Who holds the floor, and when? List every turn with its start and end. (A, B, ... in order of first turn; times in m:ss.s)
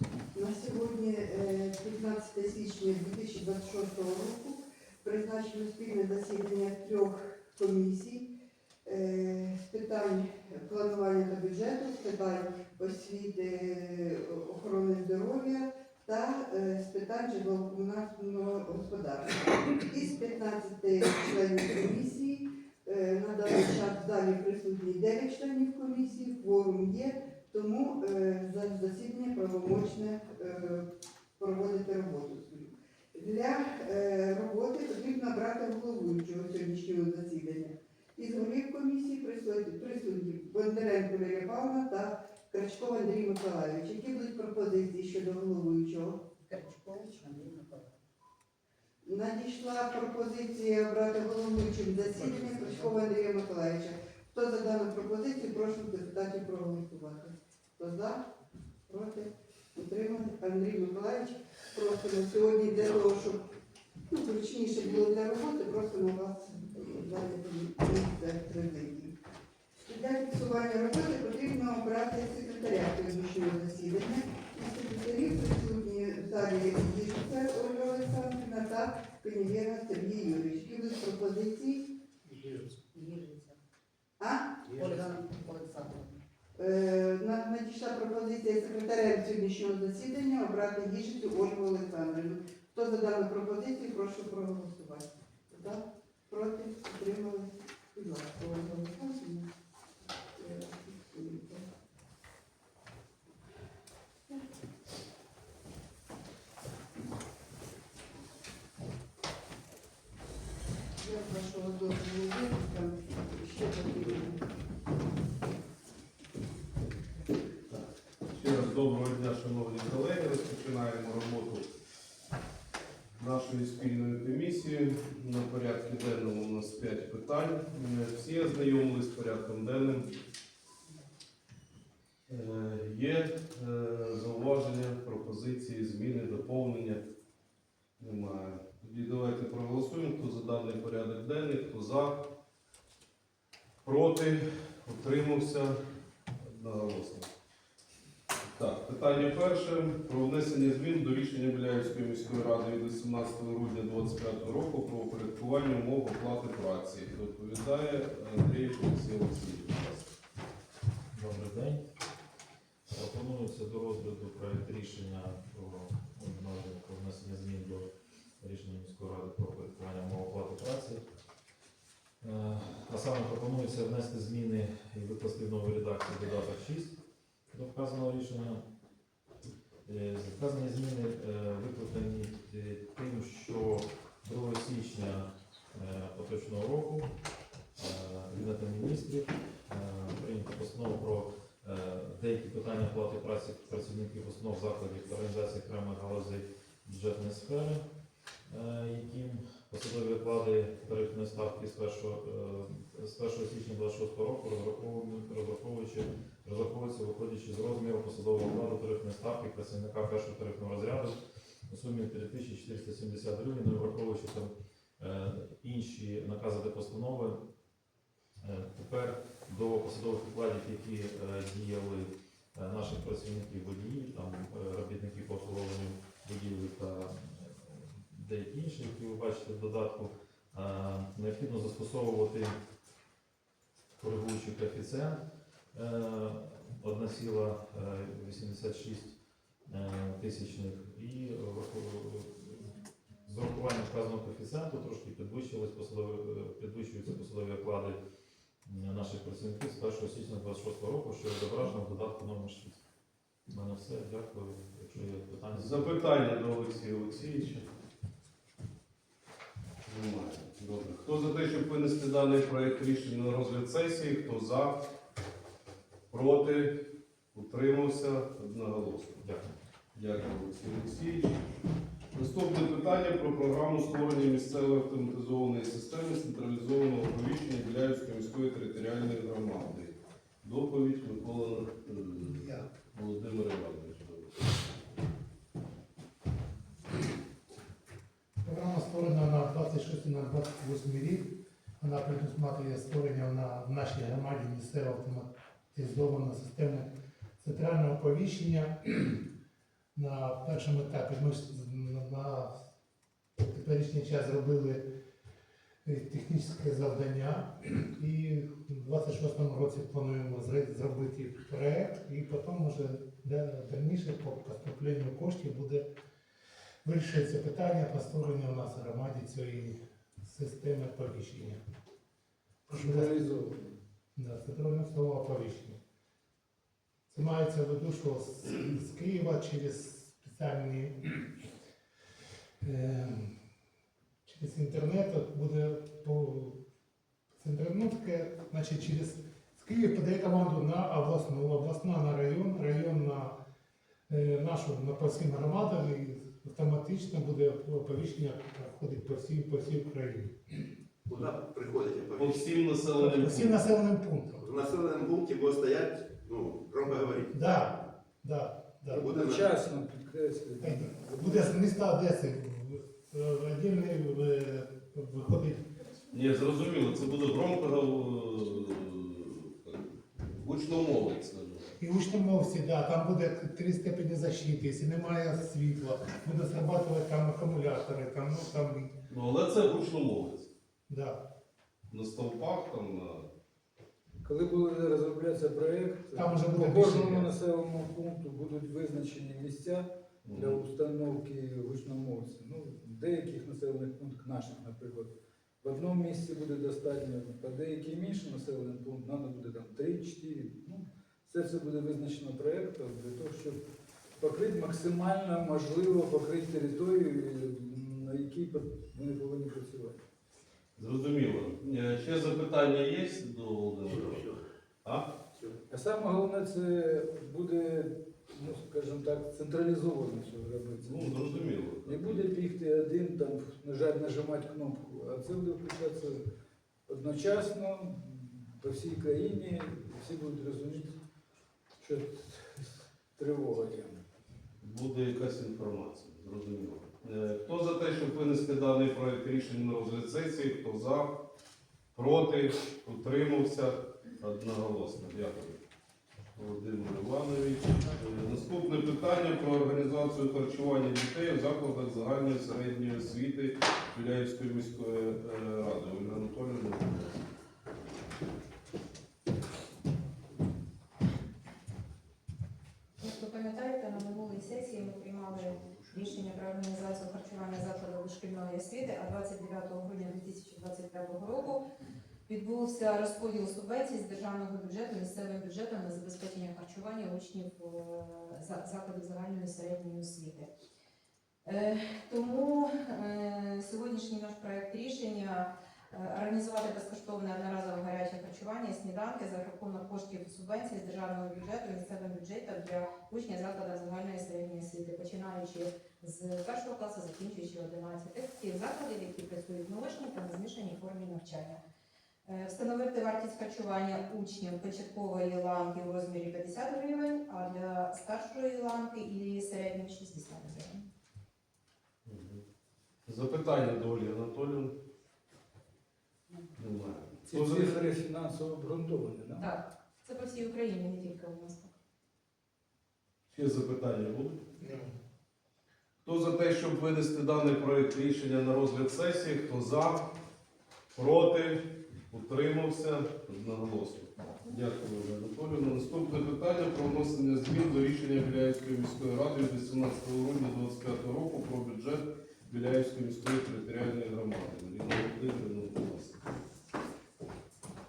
0:00.4-0:08.3 A
0:08.9-0:30.9 A
0:31.4-0:46.2 A
0:46.4-0:48.0 B
0:49.1-0:58.3 A
0:58.9-1:03.4 A
1:04.1-1:09.1 A
1:09.8-1:21.9 A
1:22.9-1:23.6 B
1:24.2-1:24.8 A
1:24.8-1:26.2 B
1:26.6-1:39.5 A
1:40.4-1:41.7 A
1:51.0-1:54.4 A
1:57.7-2:01.7 C
2:03.2-2:10.1 C
2:12.3-2:17.0 C
2:18.0-2:22.2 C
2:23.8-2:25.8 C
2:26.4-2:27.3 C
2:28.5-2:40.1 C
2:41.1-2:41.8 D
2:42.9-2:47.9 D
2:48.4-2:51.0 D
2:52.2-2:57.0 D
2:57.5-2:58.6 D
2:59.9-3:07.1 D
3:07.8-3:17.8 D
3:18.5-3:37.4 D
3:38.4-3:52.6 D
3:54.0-3:55.2 D
3:55.7-4:02.7 D
4:03.3-4:08.0 D
4:08.7-4:12.8 D
4:13.5-4:16.0 D
4:15.6-4:17.7 C
4:19.8-4:24.7 C
4:26.1-4:26.8 C
4:27.3-4:29.2 C
4:29.9-4:31.4 C
4:32.1-4:44.4 C
4:42.3-4:42.7 E
4:48.4-4:56.9 E
4:57.4-4:59.2 E
5:00.0-5:02.5 E
5:03.4-5:04.8 E
5:05.8-5:15.8 E
5:16.8-5:21.6 E
5:22.7-5:23.2 E
5:22.7-5:23.8 F
5:24.2-5:25.8 E
5:27.1-5:31.3 E
5:32.6-5:33.3 E
5:34.3-5:36.6 E
5:37.4-5:43.3 E
5:44.1-5:50.6 E
5:51.1-5:52.5 G
5:52.1-5:53.6 C
5:53.0-5:54.5 E
5:54.4-5:57.3 G
5:57.3-5:59.2 E
5:58.9-6:01.9 F
5:58.9-5:59.4 G
6:00.6-6:05.6 E
6:06.1-6:11.7 C
6:11.8-6:18.9 E
6:19.1-6:20.5 C
6:20.9-6:21.2 E
6:21.9-6:23.3 C
6:24.2-6:43.6 F
6:26.2-6:27.3 E
6:30.2-6:30.6 C
6:44.2-6:50.0 F
6:50.8-6:55.1 C
6:53.9-6:54.4 G
6:55.7-7:06.2 F
7:00.8-7:02.3 C
7:06.9-7:11.0 F
7:11.8-7:14.0 F
7:14.6-7:21.1 C
7:22.0-7:25.6 C
7:26.4-7:37.3 C
7:43.0-7:51.6 H
7:52.3-8:00.5 H
8:01.4-8:21.6 H
8:22.2-8:30.9 H
8:32.0-8:32.4 C
8:33.1-8:34.7 C
8:36.6-8:37.9 C
8:37.2-8:39.4 F
8:39.4-8:41.7 H
8:43.3-8:44.4 C
8:44.6-8:44.9 E
8:46.0-8:50.0 C
8:51.0-9:06.2 C